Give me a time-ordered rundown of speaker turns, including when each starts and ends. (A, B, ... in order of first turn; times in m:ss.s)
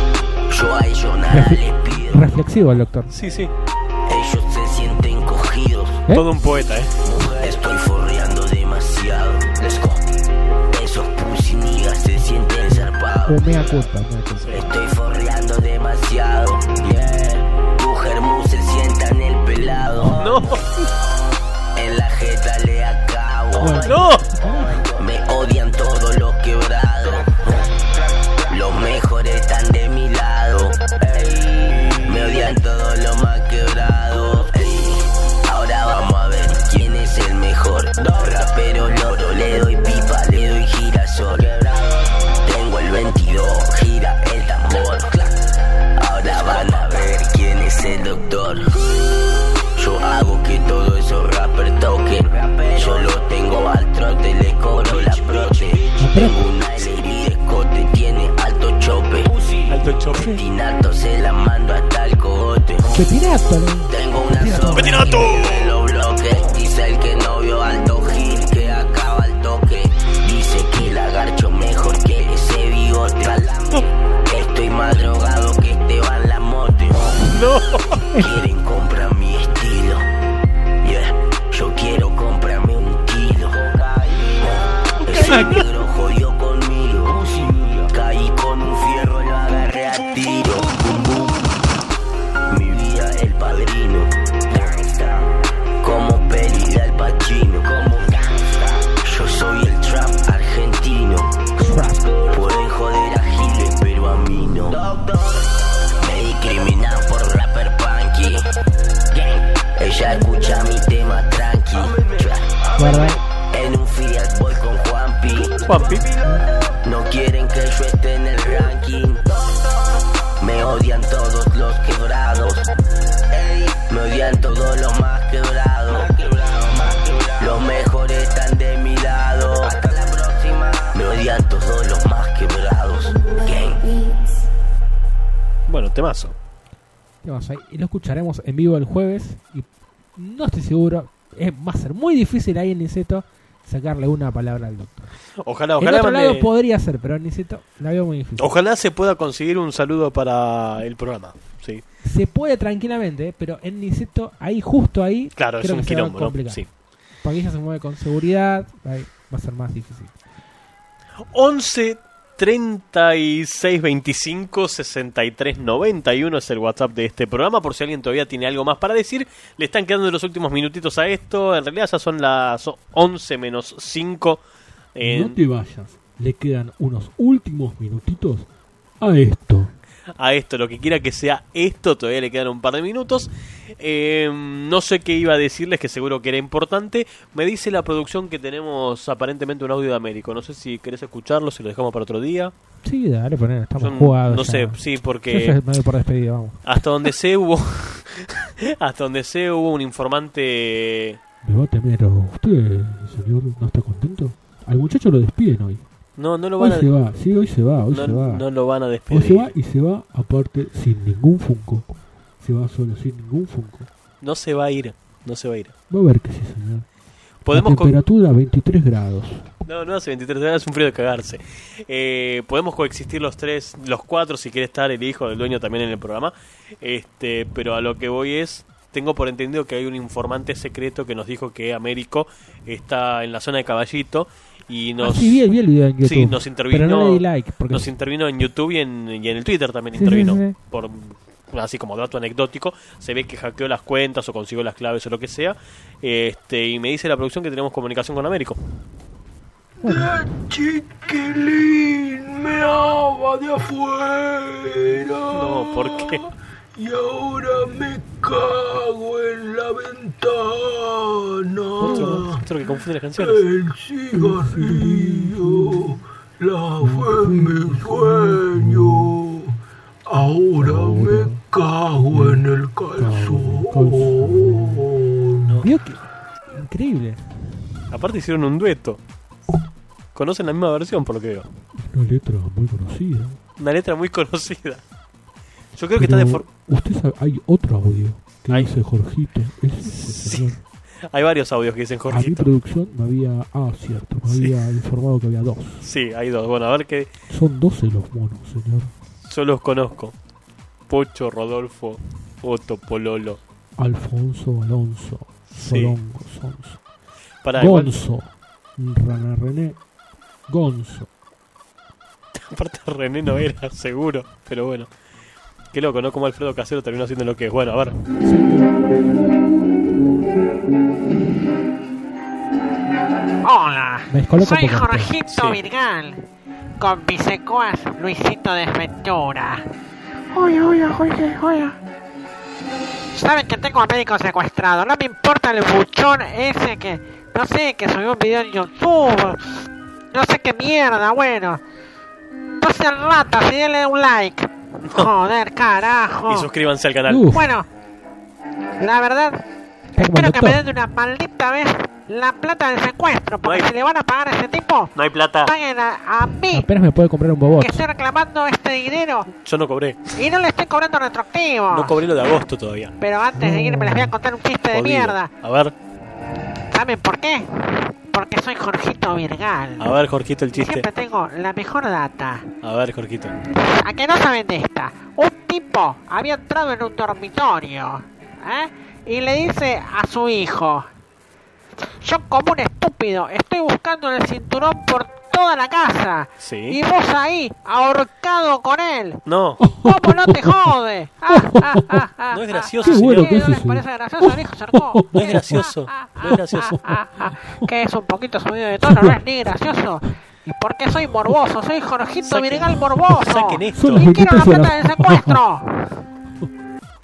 0:00.5-0:02.4 A
0:01.3-0:03.1 B
0:03.1-0:03.5 C
0:04.1-0:06.0 A
0:06.1-0:06.9 C
0:07.0-0:10.0 A
0:10.7-0:13.8 A
0:12.7-0:14.6 B
0:14.4-0:14.7 C
0:14.5-0:20.6 A
0:20.1-0:20.6 C
0:21.8-0:27.6 A
0:23.6-0:24.8 B
0:23.8-0:24.2 C
0:28.5-0:45.4 A
0:46.0-0:48.8 A
0:49.8-1:03.0 A
0:56.0-0:56.4 B
0:59.7-1:00.4 C
1:02.9-1:05.3 B
1:03.9-1:17.5 A
1:04.7-1:05.7 C
1:17.3-1:18.0 C
1:18.1-1:20.0 A
1:20.8-1:31.4 A
1:25.0-1:25.6 C
1:32.5-1:35.3 A
1:35.8-1:41.5 A
1:41.6-1:42.1 B
1:42.3-1:45.4 A
1:46.0-1:48.4 A
1:49.1-1:55.8 A
1:52.8-1:53.2 B
1:55.6-1:56.1 C
1:56.8-1:59.4 A
2:00.4-2:02.7 A
2:03.3-2:13.8 A
2:15.7-2:16.4 C
2:17.2-2:25.1 B
2:25.4-2:26.5 C
2:25.8-2:28.5 B
2:28.4-2:31.8 C
2:32.0-2:36.6 B
2:35.4-2:36.7 C
2:37.2-2:40.1 B
2:41.3-2:54.4 C
2:54.9-2:55.4 C
2:55.0-2:58.5 D
2:59.0-2:59.7 D
3:00.2-3:03.3 C
3:03.8-3:12.5 C
3:12.8-3:16.6 B
3:13.8-3:15.6 C
3:16.6-3:21.2 C
3:21.4-3:25.8 D
3:26.2-3:26.9 C
3:26.6-3:28.4 D
3:27.9-3:29.5 C
3:29.1-3:31.9 D
3:32.4-3:33.9 D
3:34.2-3:35.7 C
3:35.9-3:36.9 D
3:37.4-3:37.9 C
3:37.5-3:39.5 D
3:39.6-3:55.4 C
3:55.0-3:57.9 B
3:56.0-4:08.6 C
3:59.9-4:00.6 B
4:09.8-4:10.2 B
4:09.8-4:22.4 E
4:15.3-4:16.2 C
4:21.8-4:22.2 B
4:21.8-4:23.4 C
4:21.8-4:22.2 D
4:23.2-4:29.5 E
4:24.1-4:26.0 D
4:26.8-4:29.2 D
4:30.1-4:35.6 E
4:30.6-4:31.4 D
4:32.1-4:34.9 D
4:35.6-4:37.2 B
4:37.9-4:39.0 C
4:40.1-4:41.5 C
4:41.8-4:43.4 D
4:43.6-4:44.8 C
4:45.8-4:46.4 C
4:46.0-4:50.6 D
4:49.8-4:50.5 C
4:51.1-4:52.5 C
4:52.1-4:55.8 D
4:54.3-4:54.5 C
4:55.8-4:57.1 C
4:57.3-4:58.9 D
4:59.2-5:00.1 C
5:00.9-5:03.4 C
5:03.8-5:06.8 D
5:05.5-5:06.0 C
5:07.4-5:08.0 C
5:07.5-5:09.8 D
5:10.5-5:11.1 D
5:12.3-5:14.9 C
5:15.7-5:18.0 C
5:18.2-5:18.6 D
5:23.4-5:26.2 F
5:24.1-5:25.1 B
5:25.3-5:25.6 C
5:26.8-5:29.6 F
5:30.3-5:31.8 F
5:33.1-5:39.5 F
5:40.1-5:41.6 F
5:42.6-5:46.5 F
5:46.3-5:47.4 C
5:47.1-5:47.4 B
5:47.3-5:47.6 F
5:48.8-5:49.4 F
5:50.0-5:54.9 F
5:50.0-5:50.6 B
5:53.4-5:53.7 C
5:54.9-5:55.5 C
5:55.4-5:56.7 F
5:56.5-5:57.8 B
5:57.6-5:59.3 F
5:59.4-6:00.1 C
6:00.2-6:02.0 F
6:01.7-6:02.9 C
6:03.0-6:05.3 F
6:03.4-6:04.0 B
6:03.5-6:04.0 D
6:04.7-6:05.7 C
6:06.7-6:10.0 F
6:09.8-6:10.8 C
6:10.5-6:12.5 F
6:12.6-6:13.3 C
6:13.8-6:20.9 F
6:22.0-6:29.2 F
6:26.4-6:26.8 C
6:29.2-6:29.6 C
6:29.6-6:30.5 D
6:29.7-6:45.9 F
6:31.4-6:32.0 D
6:32.3-6:33.4 C
6:32.8-6:35.6 D
6:35.1-6:36.8 C
6:36.3-6:36.8 D
6:38.8-6:39.1 D
6:42.2-6:44.1 C
6:43.7-6:45.4 D